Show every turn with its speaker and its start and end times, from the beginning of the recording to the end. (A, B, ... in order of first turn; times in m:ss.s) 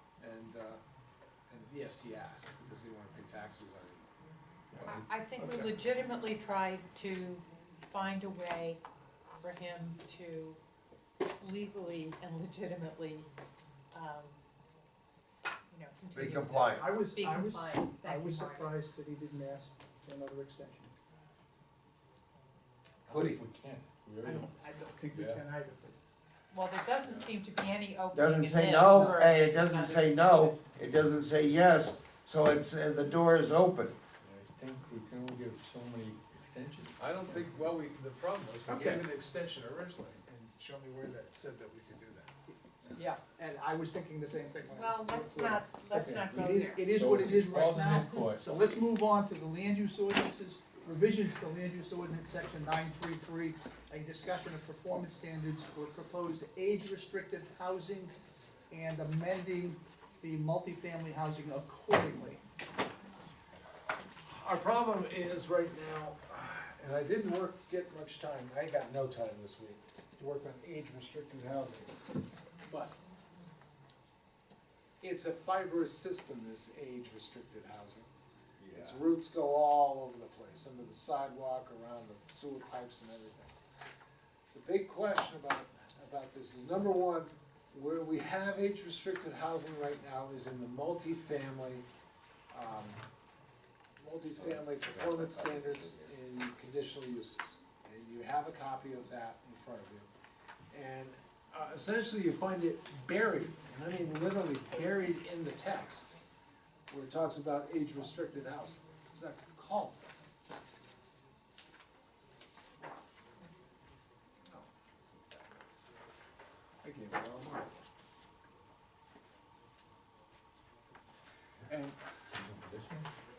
0:00.2-0:00.8 A
0:01.5-0:04.0 A
0:04.7-0:05.0 A
0:04.8-0:08.8 B
0:05.4-0:05.7 C
0:09.4-0:10.6 B
0:11.4-0:13.3 B
0:13.9-0:14.4 B
0:15.7-0:18.7 B
0:16.1-0:16.9 D
0:16.6-0:20.9 C
0:23.0-0:23.4 D
0:23.1-0:24.5 A
0:23.2-0:24.3 E
0:24.2-0:26.0 C
0:26.5-0:30.5 B
0:28.1-0:34.0 D
0:34.2-0:37.0 E
0:35.8-0:36.2 A
0:37.0-0:42.3 A
0:38.7-0:39.0 C
0:42.5-0:58.1 C
0:44.7-0:46.8 B
0:46.9-0:48.2 E
0:47.2-0:48.4 A
0:58.7-1:02.4 C
1:04.3-1:12.0 A
1:12.6-1:13.0 A
1:15.0-1:23.5 A
1:18.6-1:19.1 E
1:24.5-1:31.9 A
1:32.5-1:33.0 A
1:34.0-1:40.1 A
1:34.9-1:35.2 D
1:40.7-1:46.2 A
1:46.9-1:50.1 A
1:54.5-1:55.9 A
1:56.8-1:57.8 A
2:01.7-2:02.8 A
2:02.4-2:03.0 E